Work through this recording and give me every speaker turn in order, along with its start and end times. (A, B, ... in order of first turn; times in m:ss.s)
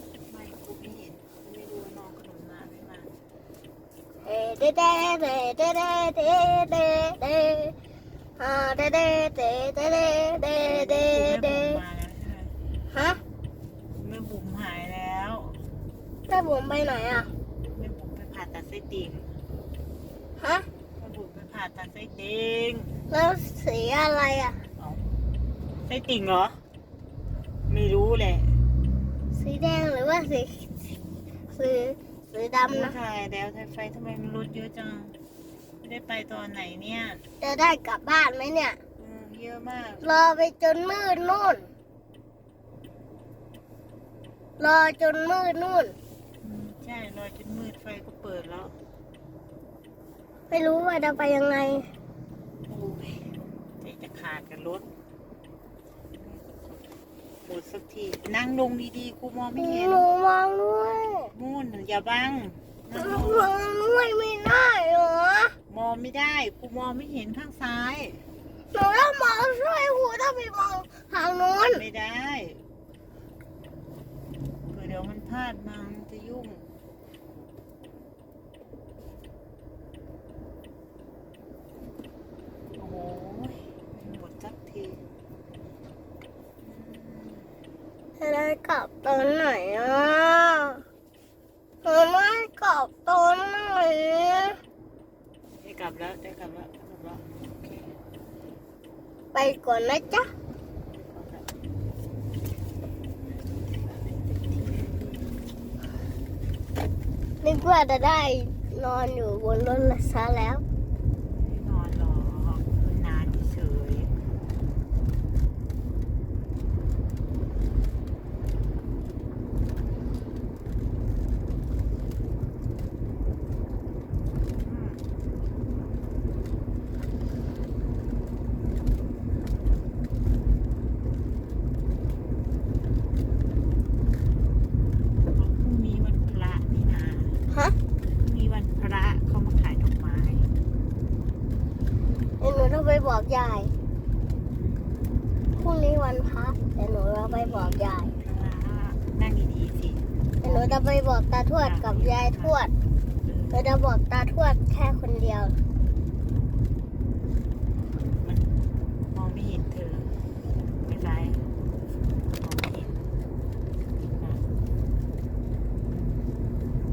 0:00.3-0:03.1 A
0:04.2-0:07.7 B
0:08.4-0:11.8 B
0:10.6-0:12.5 A
0:12.9-0:13.2 B
0:13.9-0:15.6 A
0:16.3-0:17.3 B
0:17.7-0:19.4 A
0:20.4-0:20.7 B
0:21.0-0:22.9 A
0:23.1-0:24.6 B
0:24.8-0:25.0 A
0:25.8-0:26.6 A
0:27.7-0:28.6 A
0:29.3-0:30.7 B
0:31.5-0:32.9 B
0:32.7-0:35.1 A
0:35.8-0:37.2 A
0:37.4-0:38.8 B
0:39.0-0:40.2 A
0:40.0-0:41.7 B
0:44.6-0:45.9 B
0:46.4-0:48.7 A
0:50.5-0:51.9 B
0:52.7-0:54.9 A
0:56.1-0:56.5 A
0:57.4-1:00.1 A
0:59.6-1:01.3 B
1:01.3-1:03.5 A
1:02.9-1:05.6 B
1:05.7-1:08.2 A
1:08.7-1:11.8 B
1:11.6-1:12.6 A
1:14.7-1:16.7 A
1:22.7-1:25.0 A
1:26.6-1:27.5 A
1:28.2-1:30.8 B
1:31.8-1:34.6 B
1:35.6-1:37.9 A
1:39.3-1:40.3 B
1:40.9-1:41.5 A
1:43.8-1:45.4 A
1:47.4-1:50.6 B
1:51.2-1:54.1 A
2:04.6-2:05.0 A
2:15.3-2:17.4 A
2:17.5-2:17.8 B
2:18.0-2:20.5 A
2:22.4-2:23.7 B
2:24.5-2:25.0 A
2:25.5-2:28.1 B
2:27.2-2:30.7 A
2:30.4-2:32.7 B
2:31.6-2:32.6 A
2:33.2-2:33.6 A
2:33.5-2:35.6 B
2:38.0-2:38.5 A
2:39.1-2:40.1 A
2:40.8-2:41.5 A
2:42.3-2:43.0 A
2:44.0-2:44.4 A